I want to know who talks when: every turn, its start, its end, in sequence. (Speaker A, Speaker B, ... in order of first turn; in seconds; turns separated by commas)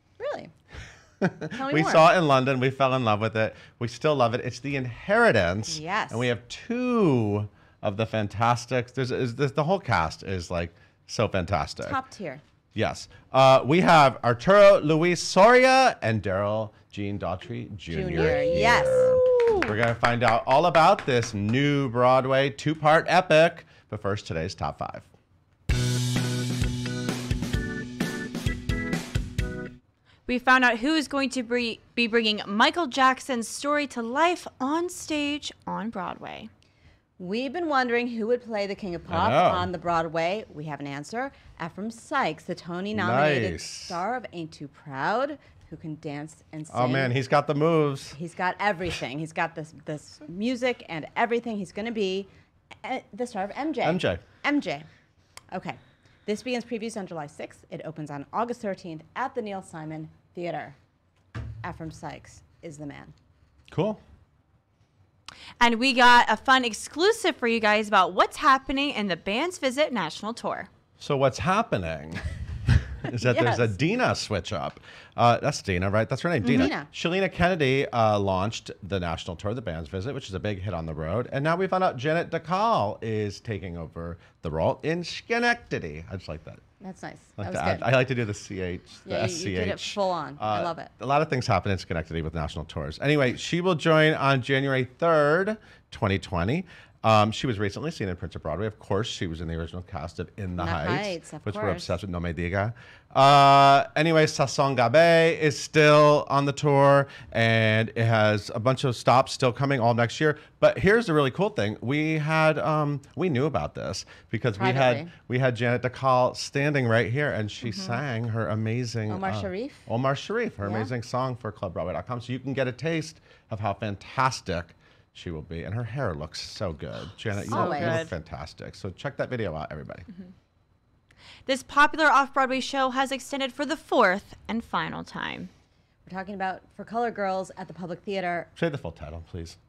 Speaker A: 0.2-0.5, Speaker B: 1.2-12.0, Speaker A: 1.5-2.1, Speaker A: 5.7-6.3, Speaker A: 11.8-12.4, Speaker B: 12.8-25.1, Speaker A: 17.9-19.6, Speaker C: 30.3-36.5, Speaker A: 37.2-47.1, Speaker B: 39.1-39.7, Speaker B: 42.9-44.0, Speaker B: 46.7-48.2, Speaker A: 48.1-52.3, Speaker A: 52.8-54.9, Speaker B: 53.8-54.2, Speaker A: 55.5-60.8, Speaker A: 61.6-63.1, Speaker B: 63.7-64.0, Speaker C: 65.6-70.7, Speaker B: 71.0-86.6, Speaker A: 73.1-73.8, Speaker C: 76.4-76.7, Speaker A: 76.5-76.9, Speaker A: 86.8-87.9, Speaker B: 87.4-130.1, Speaker A: 89.0-90.9, Speaker A: 100.6-101.9, Speaker A: 114.6-115.1, Speaker C: 117.7-118.0, Speaker A: 119.1-119.9, Speaker A: 120.6-120.9, Speaker A: 127.5-128.0, Speaker C: 127.5-128.1, Speaker C: 131.5-135.5, Speaker A: 136.1-138.5, Speaker B: 138.6-139.6